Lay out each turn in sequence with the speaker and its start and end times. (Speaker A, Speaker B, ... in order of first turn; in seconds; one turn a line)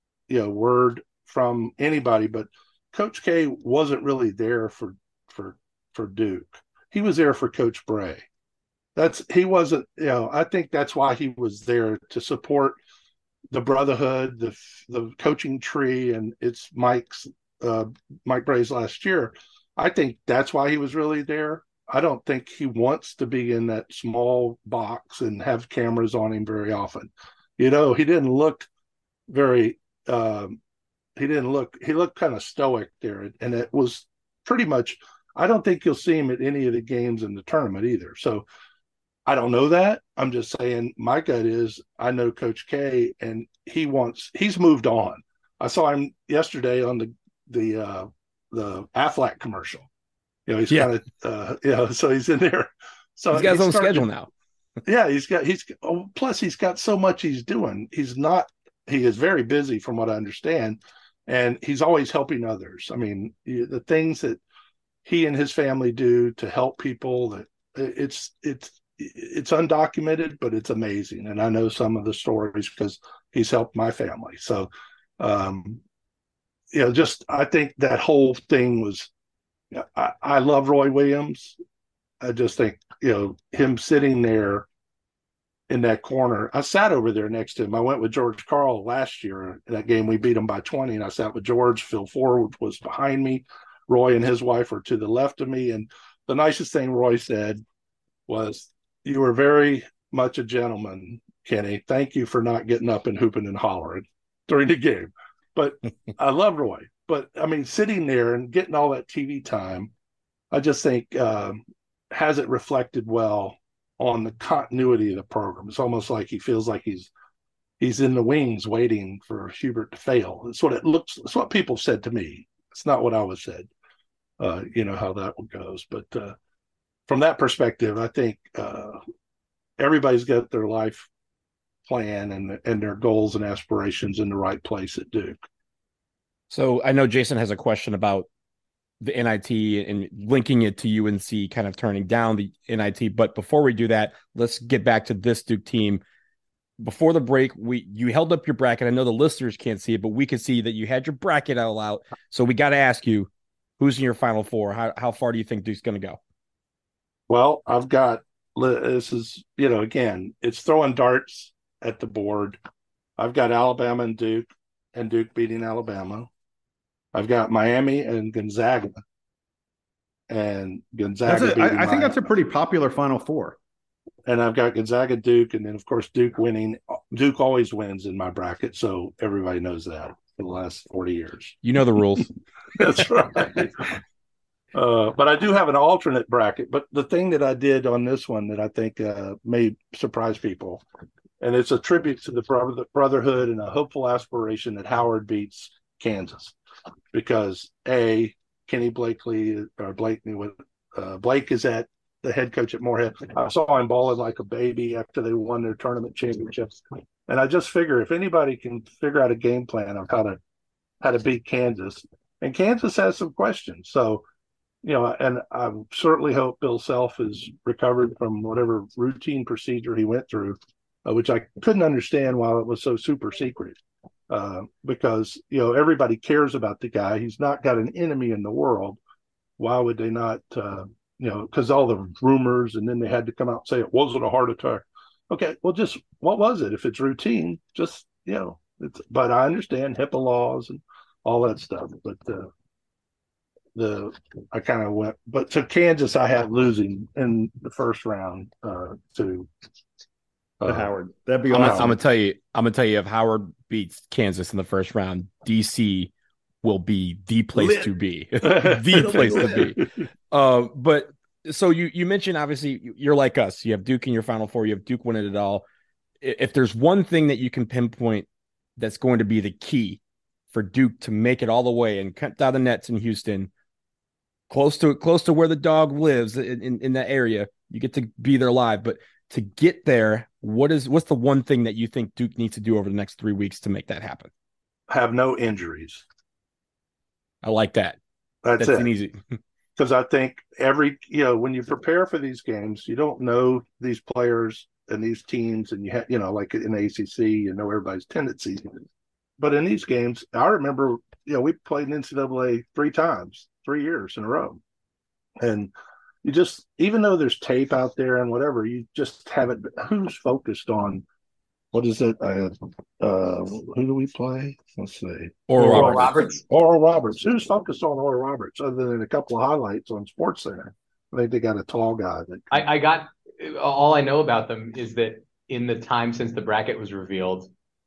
Speaker A: 0.3-8.2
Speaker A: 8.9-12.8
Speaker A: 13.5-28.7
Speaker A: 29.3-30.6
Speaker A: 31.1-38.4
Speaker A: 39.2-49.9
Speaker A: 50.5-54.1
Speaker B: 53.3-54.3
Speaker A: 54.8-64.4
Speaker A: 65.0-75.8
Speaker A: 76.7-79.1
Speaker A: 79.7-81.5
Speaker A: 82.2-84.7
Speaker A: 85.7-97.6
Speaker A: 98.3-109.9
Speaker A: 110.5-111.6
Speaker A: 112.1-117.1
Speaker A: 117.8-123.7
Speaker A: 124.4-126.3
Speaker A: 127.1-129.0
Speaker A: 129.8-131.1
Speaker A: 131.8-135.4
Speaker B: 136.5-138.3
Speaker B: 139.0-146.0
Speaker B: 146.8-156.2
Speaker A: 157.3-162.6
Speaker A: 163.2-166.3
Speaker A: 167.1-168.9
Speaker A: 170.3-172.2
Speaker C: 171.2-173.6
Speaker A: 174.3-181.6
Speaker B: 181.6-182.3
Speaker A: 182.8-183.7
Speaker A: 184.7-190.8
Speaker A: 191.4-196.5
Speaker A: 197.1-210.4
Speaker A: 211.0-214.2
Speaker A: 214.8-223.8
Speaker A: 224.3-229.0
Speaker A: 229.6-242.5
Speaker A: 243.7-249.5
Speaker A: 250.6-250.9
Speaker C: 250.6-252.0
Speaker B: 251.5-265.6
Speaker A: 251.5-251.9
Speaker A: 257.6-257.9
Speaker A: 258.4-259.9
Speaker C: 259.1-259.4
Speaker B: 266.2-273.5
Speaker B: 274.5-284.3
Speaker A: 284.9-286.0
Speaker B: 287.4-288.0
Speaker A: 288.4-288.9
Speaker B: 288.6-289.2
Speaker A: 289.8-298.8
Speaker A: 299.4-304.6
Speaker A: 305.4-305.7
Speaker A: 306.2-311.0
Speaker A: 311.7-322.4
Speaker B: 315.5-316.2
Speaker D: 315.6-316.4
Speaker D: 322.5-327.5